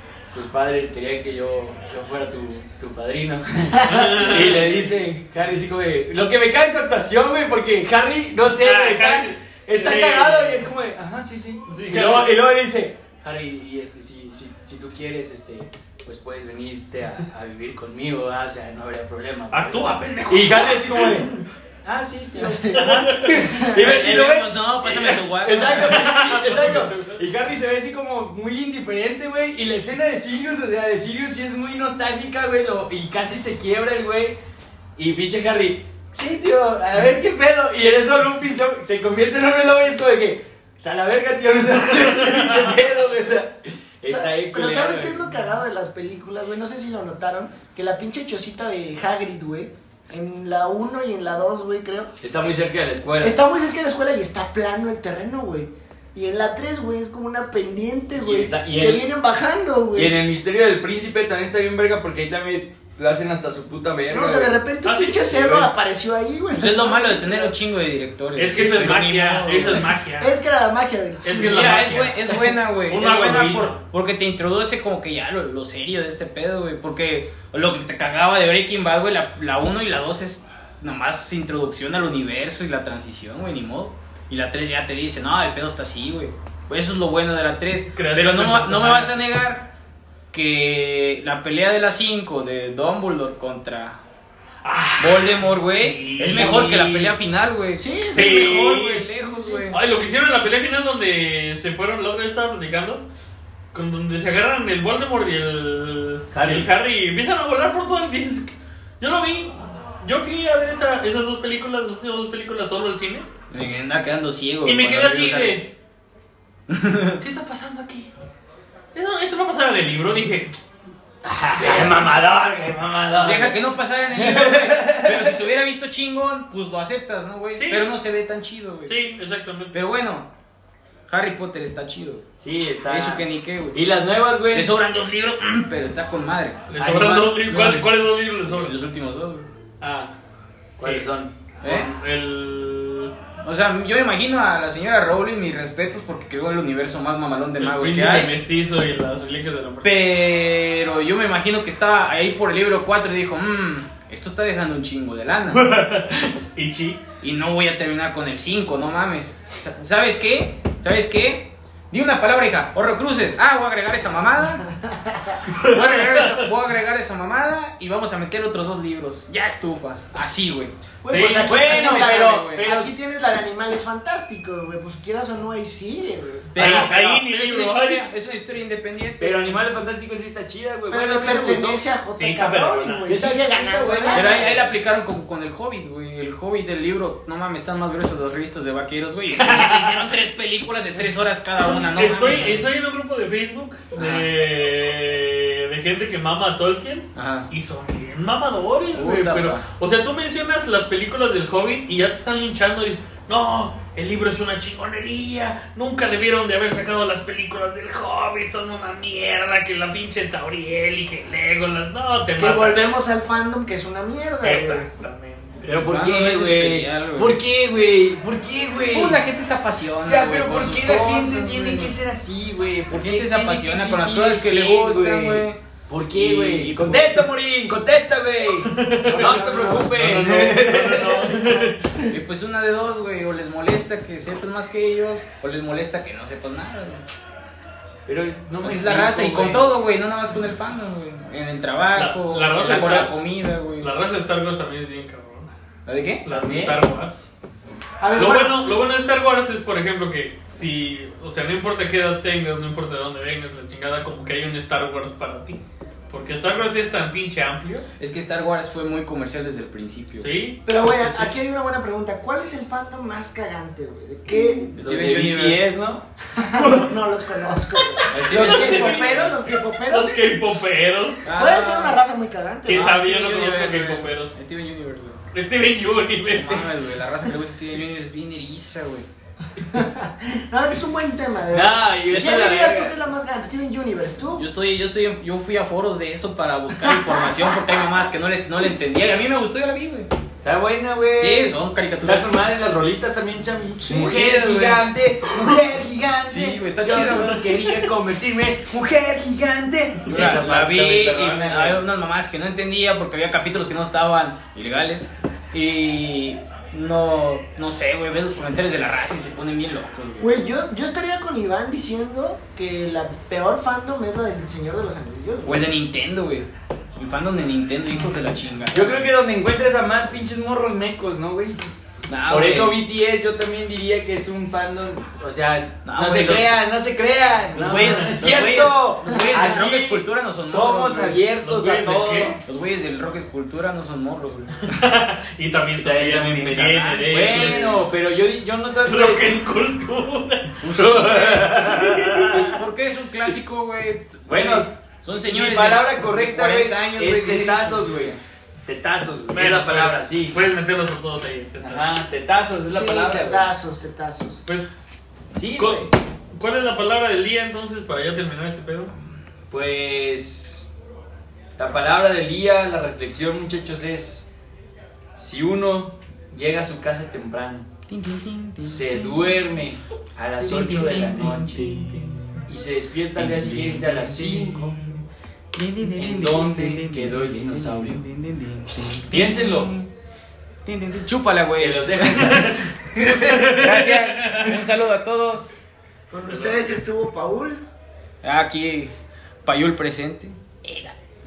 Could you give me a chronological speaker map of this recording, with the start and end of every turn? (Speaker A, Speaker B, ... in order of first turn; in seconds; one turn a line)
Speaker A: 0.3-34.4
Speaker B: 3.8-5.0
Speaker B: 8.5-10.7
Speaker B: 11.7-12.3
Speaker B: 19.5-21.4
Speaker C: 22.3-23.8
Speaker B: 22.7-23.7
Speaker D: 23.8-26.1
Speaker B: 25.5-27.2
Speaker A: 35.0-45.2
Speaker B: 42.2-42.7
Speaker C: 44.1-52.1
Speaker A: 52.2-53.4
Speaker C: 53.2-60.1
Speaker A: 58.2-59.0
Speaker A: 60.0-64.6
Speaker C: 64.1-67.6
Speaker B: 64.8-65.7
Speaker D: 66.6-69.9
Speaker B: 68.4-70.3
Speaker C: 68.4-69.0
Speaker C: 69.6-71.8
Speaker B: 71.2-73.8
Speaker D: 71.4-89.7
Speaker B: 87.9-89.2
Speaker D: 90.3-94.0
Speaker B: 94.6-97.1
Speaker D: 95.0-99.8
Speaker C: 96.4-96.7
Speaker C: 97.8-98.5
Speaker B: 98.1-99.1
Speaker C: 99.2-99.7
Speaker B: 99.7-103.1
Speaker B: 103.7-113.3
Speaker A: 106.3-106.7
Speaker D: 113.5-115.6
Speaker B: 114.7-115.7
Speaker D: 116.7-117.2
Speaker B: 117.2-118.1
Speaker B: 118.9-120.6
Speaker A: 121.2-123.6
Speaker D: 123.2-128.9
Speaker A: 124.2-125.3
Speaker B: 127.6-127.9
Speaker B: 128.9-129.7
Speaker D: 129.7-130.3
Speaker D: 131.1-132.2
Speaker A: 132.4-134.7
Speaker D: 132.9-133.8
Speaker D: 134.5-136.6
Speaker B: 136.7-138.7
Speaker A: 136.8-137.7
Speaker D: 137.5-137.8
Speaker D: 138.4-139.5
Speaker B: 139.8-140.1
Speaker A: 140.8-141.3
Speaker B: 140.8-143.1
Speaker D: 141.6-141.9
Speaker D: 143.4-148.3
Speaker B: 147.6-150.0
Speaker D: 149.8-155.6
Speaker B: 155.5-157.0
Speaker D: 157.2-164.7
Speaker C: 164.7-165.4
Speaker B: 165.5-166.5
Speaker D: 165.6-170.7
Speaker C: 171.0-176.6
Speaker B: 171.1-171.6
Speaker A: 171.2-173.0
Speaker D: 171.5-172.7
Speaker D: 176.5-179.7
Speaker B: 176.6-178.1
Speaker A: 176.6-176.9
Speaker A: 179.2-181.8
Speaker C: 180.9-184.4
Speaker B: 182.2-183.1
Speaker A: 183.1-184.7
Speaker D: 184.1-192.7
Speaker B: 189.4-190.1
Speaker B: 191.6-213.0
Speaker D: 193.9-194.3
Speaker D: 197.2-197.5
Speaker D: 198.9-199.7
Speaker C: 212.4-214.9
Speaker B: 214.4-215.9
Speaker A: 215.6-219.2
Speaker D: 215.9-217.4
Speaker D: 218.9-221.9
Speaker A: 220.0-231.4
Speaker D: 222.9-225.6
Speaker D: 226.1-227.4
Speaker B: 228.7-231.9
Speaker C: 229.2-230.0
Speaker D: 229.3-230.6
Speaker D: 232.1-237.0
Speaker A: 238.1-239.7
Speaker D: 238.6-243.9
Speaker B: 242.0-243.2
Speaker B: 243.8-245.5
Speaker D: 245.9-246.2
Speaker B: 246.2-247.3
Speaker A: 246.3-246.8
Speaker C: 248.0-248.6
Speaker B: 248.2-257.9
Speaker D: 258.0-260.3
Speaker B: 260.2-261.3
Speaker C: 260.7-264.8
Speaker A: 264.7-266.1
Speaker D: 264.8-265.7
Speaker C: 266.3-270.4
Speaker B: 266.6-267.0
Speaker B: 267.8-271.2
Speaker D: 268.1-269.4
Speaker D: 271.2-272.0
Speaker C: 271.3-273.0
Speaker B: 272.6-274.4
Speaker D: 272.7-275.2
Speaker B: 275.3-276.7
Speaker D: 276.3-279.1
Speaker C: 279.6-284.5
Speaker A: 281.5-282.9
Speaker D: 284.4-290.1
Speaker C: 286.9-287.1
Speaker A: 290.4-301.8
Speaker D: 291.2-292.4
Speaker C: 293.8-294.2
Speaker D: 293.9-294.9
Speaker D: 296.3-297.5
Speaker D: 300.1-310.4
Speaker C: 310.2-315.7
Speaker D: 315.4-319.1
Speaker A: 318.7-321.6
Speaker D: 322.1-322.8
Speaker A: 322.3-332.4
Speaker D: 325.9-326.6
Speaker D: 327.5-331.2
Speaker B: 327.7-328.4
Speaker C: 329.1-329.6
Speaker B: 331.4-332.4
Speaker D: 332.4-334.6
Speaker B: 334.6-337.8
Speaker A: 335.8-339.4
Speaker D: 336.2-337.8
Speaker B: 338.8-340.6
Speaker D: 340.6-341.7
Speaker A: 340.7-342.5
Speaker B: 341.6-342.4
Speaker D: 342.2-348.2
Speaker A: 344.3-350.5
Speaker B: 349.3-351.9
Speaker A: 351.6-353.5
Speaker C: 352.7-354.4
Speaker B: 354.5-354.7
Speaker A: 355.3-355.9
Speaker B: 355.6-358.9
Speaker A: 359.5-360.7
Speaker A: 361.6-364.3
Speaker A: 365.2-367.7
Speaker D: 367.9-369.5
Speaker A: 368.6-371.8
Speaker D: 370.4-372.5
Speaker A: 372.5-374.8
Speaker D: 373.2-379.9
Speaker A: 375.8-378.0
Speaker A: 379.0-379.7
Speaker D: 380.6-385.5
Speaker A: 381.4-383.7
Speaker B: 382.2-384.6
Speaker C: 386.1-387.6
Speaker B: 386.2-386.8
Speaker D: 388.2-388.9
Speaker D: 389.5-390.4